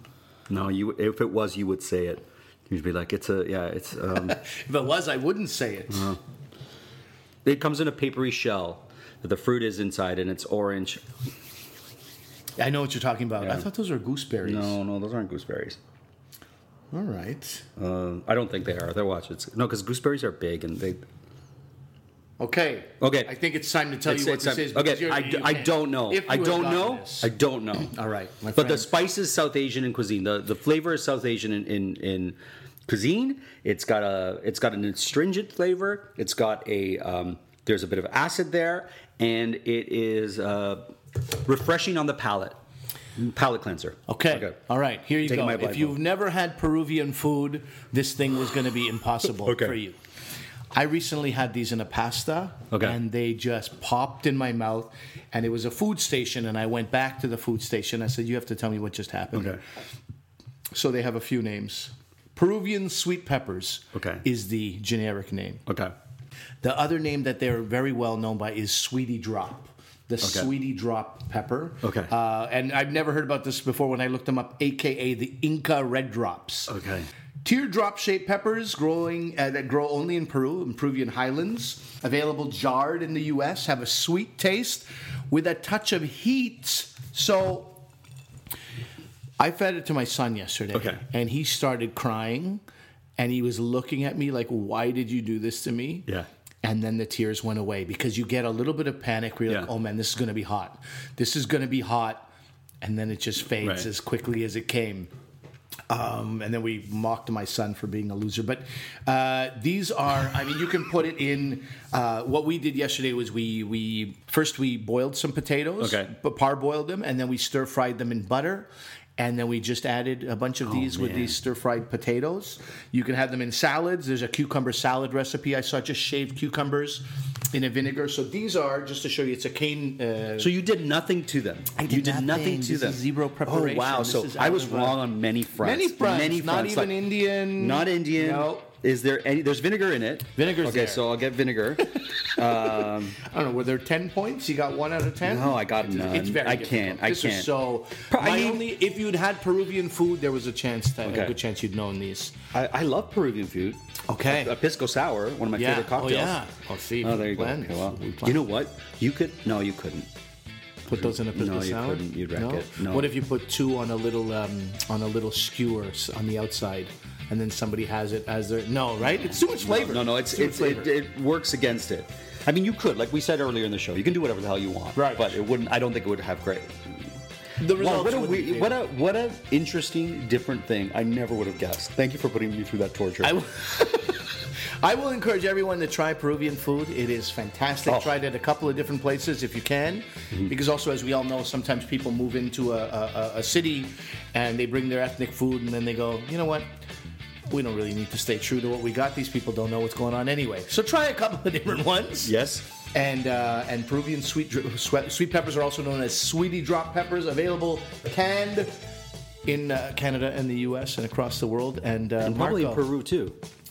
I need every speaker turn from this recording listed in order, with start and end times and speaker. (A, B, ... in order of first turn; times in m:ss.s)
0:00.5-0:04.4 A
0:04.3-0:06.2 B
0:05.9-0:06.2 A
0:07.4-0:11.0 A
0:12.6-0:14.8 B
0:13.4-0:13.7 A
0:14.4-0:15.8 A
0:16.9-0:17.6 B
0:17.8-0:21.0 A
0:22.4-0:27.3 B
0:23.0-0:23.3 A
0:24.1-0:27.9 A
0:27.9-0:28.9 B
0:28.6-0:42.6 A
0:43.2-0:44.6 A
0:44.1-0:50.0 B
0:45.2-0:46.0 A
0:49.4-0:49.8 A
0:50.7-0:59.6 B
0:52.7-0:53.0 A
0:59.3-0:59.6 A
1:00.7-1:05.6 B
1:03.9-1:04.2 A
1:05.7-1:05.9 A
1:06.6-1:16.7 B
1:10.2-1:10.5 A
1:11.8-1:12.1 A
1:16.7-1:17.1 A
1:17.4-1:27.8 B
1:29.4-1:32.6 B
1:30.7-1:31.0 A
1:33.2-1:36.1 B
1:36.6-1:42.3 B
1:42.8-1:45.1 B
1:43.6-1:43.9 A
1:45.9-2:10.5 B
1:55.8-1:56.1 A
2:00.6-2:01.4 A
2:10.4-2:23.2 A
2:11.7-2:15.0 B
2:15.6-2:18.7 B
2:20.4-2:21.0 B
2:22.0-2:32.4 B
2:25.2-2:27.5 A
2:28.1-2:28.7 A
2:31.0-2:31.4 A
2:32.5-2:36.4 A
2:34.1-2:34.6 B
2:35.6-2:38.4 B
2:37.0-2:40.1 A
2:40.9-2:50.9 B
2:40.9-2:43.1 A
2:49.1-2:57.1 A
2:55.0-2:55.4 B
2:57.6-2:58.8 B
2:57.7-3:03.3 A
3:03.2-3:16.7 B
3:07.9-3:08.1 A
3:17.5-3:22.3 B
3:22.2-3:22.7 A
3:22.9-3:28.8 B
3:29.4-3:32.8 B
3:32.2-3:33.4 A